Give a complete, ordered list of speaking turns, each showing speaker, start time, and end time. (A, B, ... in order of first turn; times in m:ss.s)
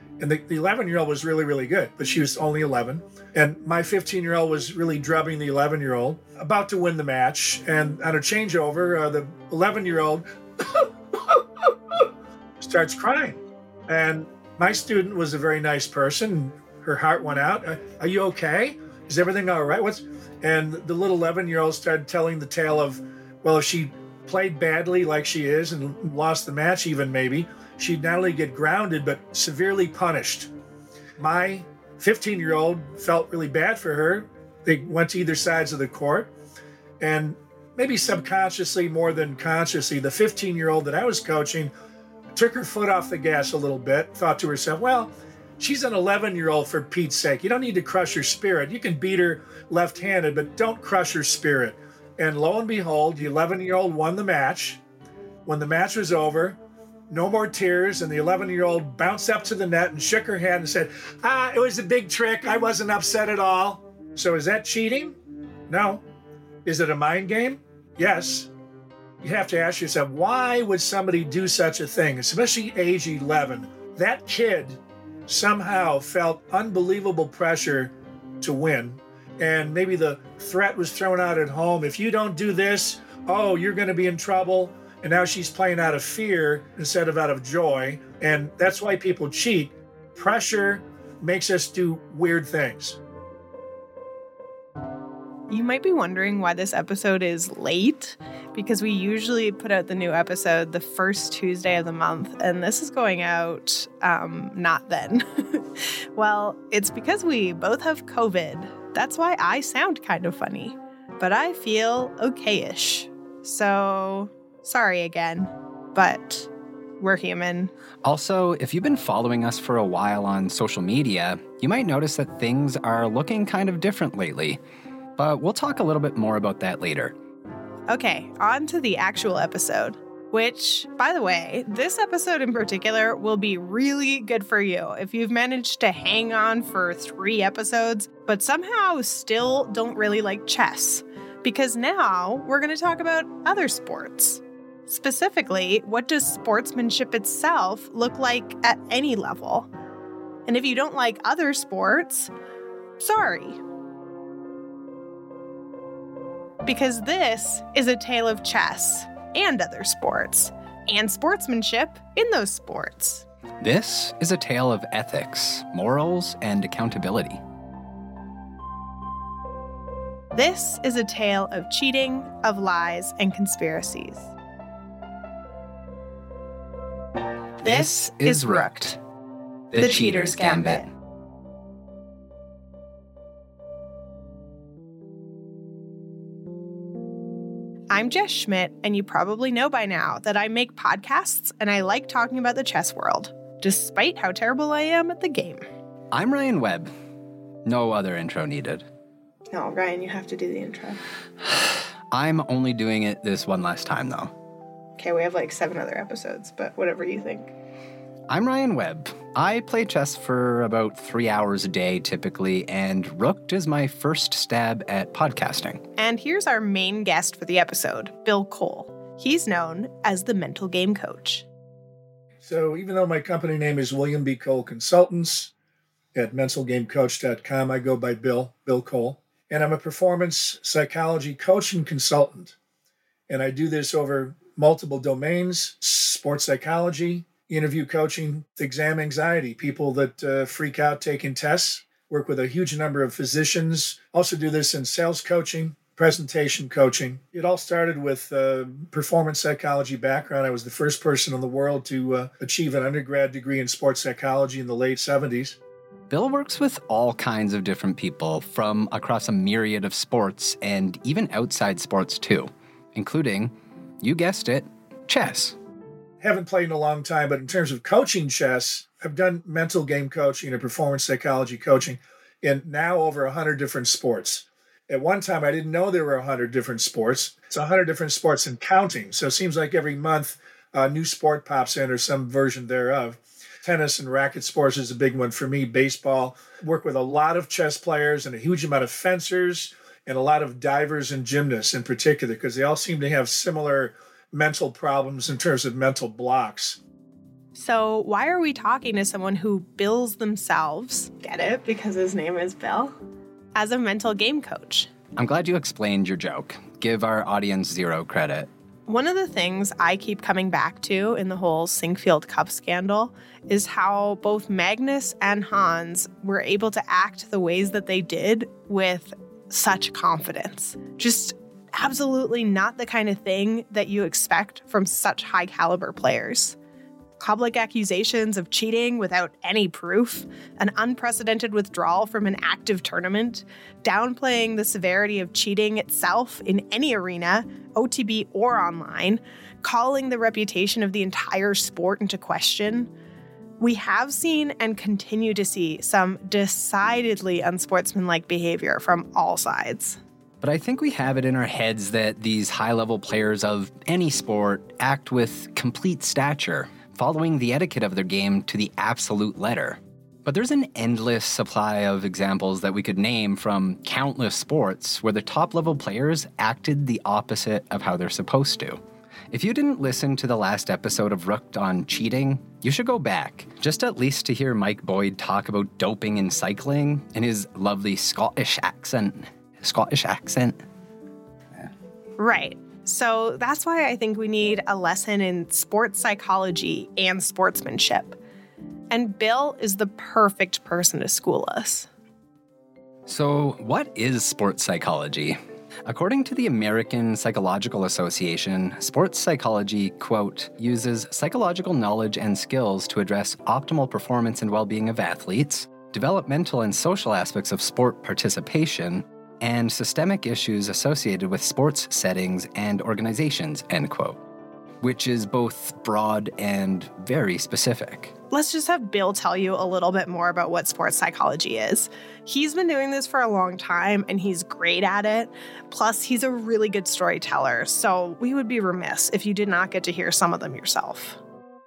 0:00.2-0:11.4 A
0:12.6-0:30.5 A
0:31.2-0:36.3 A
0:37.0-0:41.7 A
0:42.3-0:54.8 A
0:55.4-0:56.6 A
0:57.1-1:05.2 A
1:05.7-1:06.0 A
1:06.6-1:08.5 A
1:09.2-1:33.0 A
1:35.5-1:56.5 B
1:57.0-1:57.7 B
1:58.0-2:04.6 C
2:05.2-2:07.1 C
2:07.9-2:29.7 B
2:30.5-2:32.3 B
2:33.0-2:33.6 B
2:36.6-2:43.2 B
2:43.6-2:47.4 C
2:50.3-2:54.3 B
2:57.6-2:58.9 C
2:57.6-2:59.0 B
2:59.7-3:00.8 C
2:59.8-3:00.8 B
3:07.9-3:15.6 B
3:16.1-3:16.9 C
3:17.6-3:18.8 C
3:19.5-3:21.0 B
3:21.4-3:24.3 C
3:25.0-3:27.5 B
3:28.3-3:35.8 C
3:36.0-3:41.4 B
3:42.4-3:45.5 A
3:46.1-3:52.5 A
3:53.3-4:15.6 A
4:16.1-4:25.6 C
4:26.2-4:56.8 A
4:57.5-5:02.9 B
5:03.5-5:04.9 B
5:05.2-5:08.5 C
5:08.9-5:26.6 B
5:27.2-5:42.9 B
5:43.6-5:50.0 B
5:50.4-6:20.6 C
6:22.2-6:28.2 B
6:28.9-6:31.9 B
6:33.0-6:54.2 C
6:54.8-6:58.1 C
6:58.3-7:11.2 B